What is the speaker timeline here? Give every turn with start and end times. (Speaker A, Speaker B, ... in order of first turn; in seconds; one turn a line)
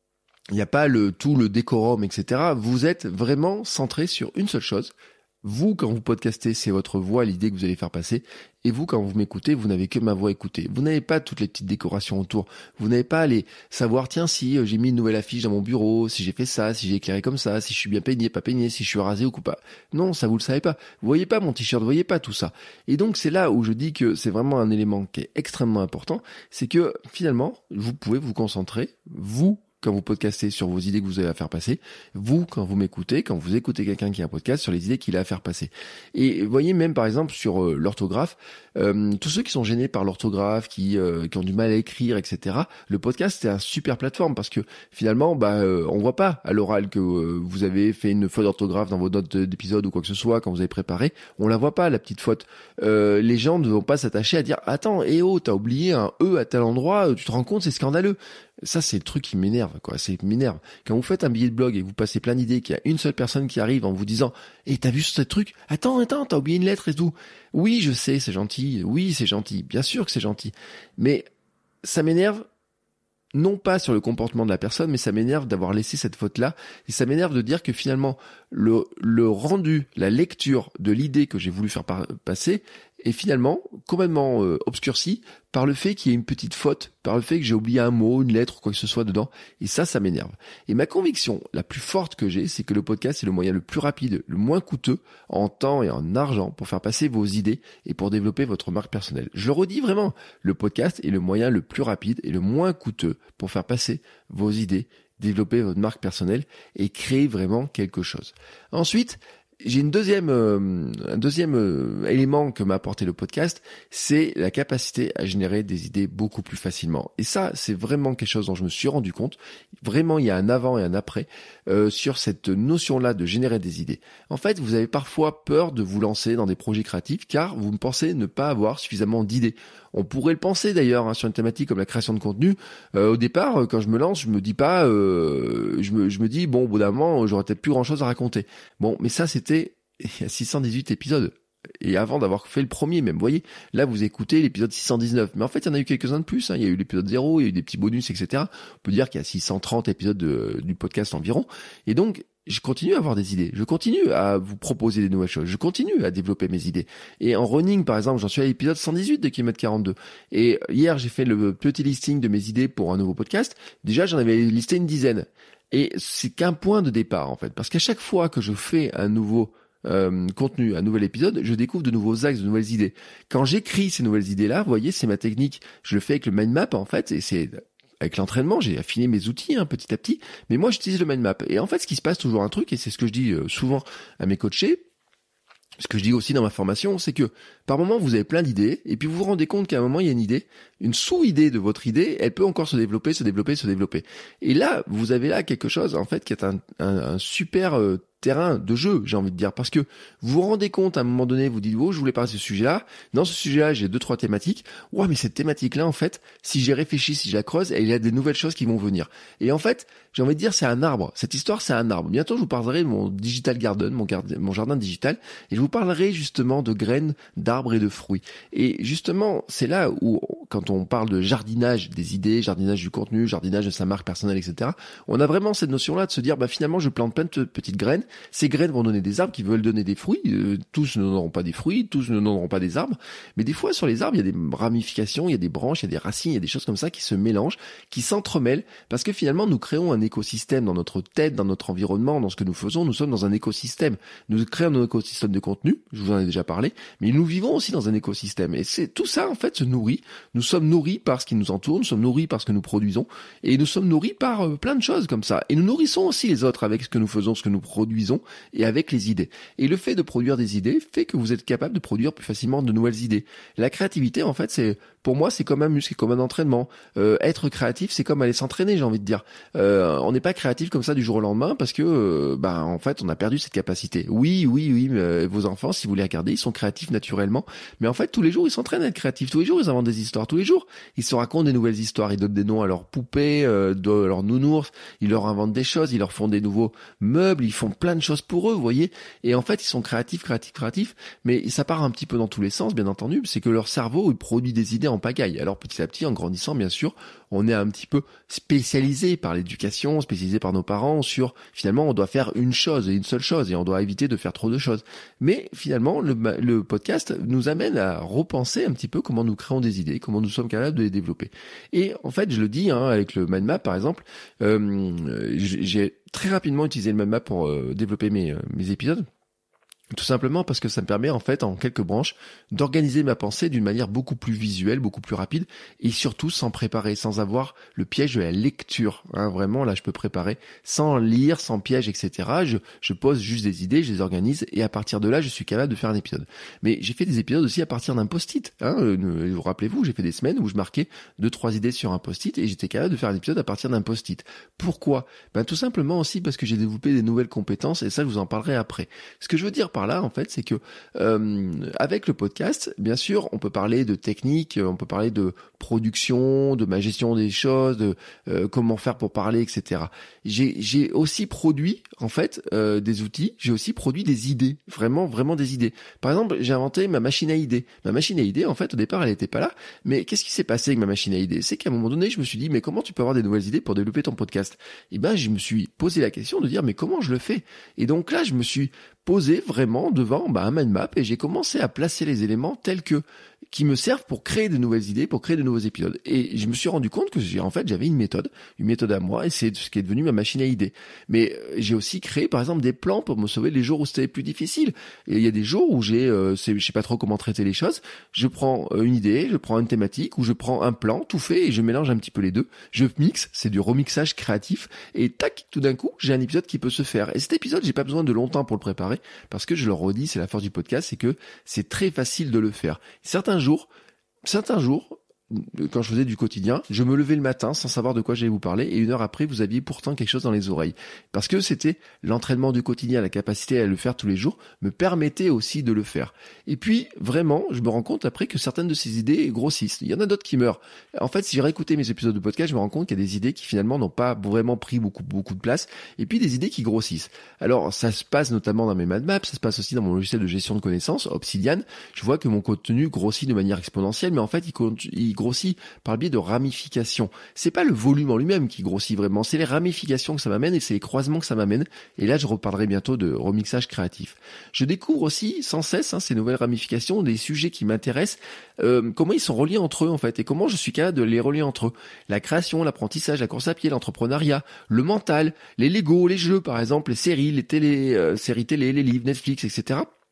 Speaker A: 0.5-71.3
Speaker A: 71.8-72.4
Speaker A: 73.3-184.8
Speaker A: 185.8-319.1
Speaker A: 319.9-413.7
Speaker A: 414.2-469.9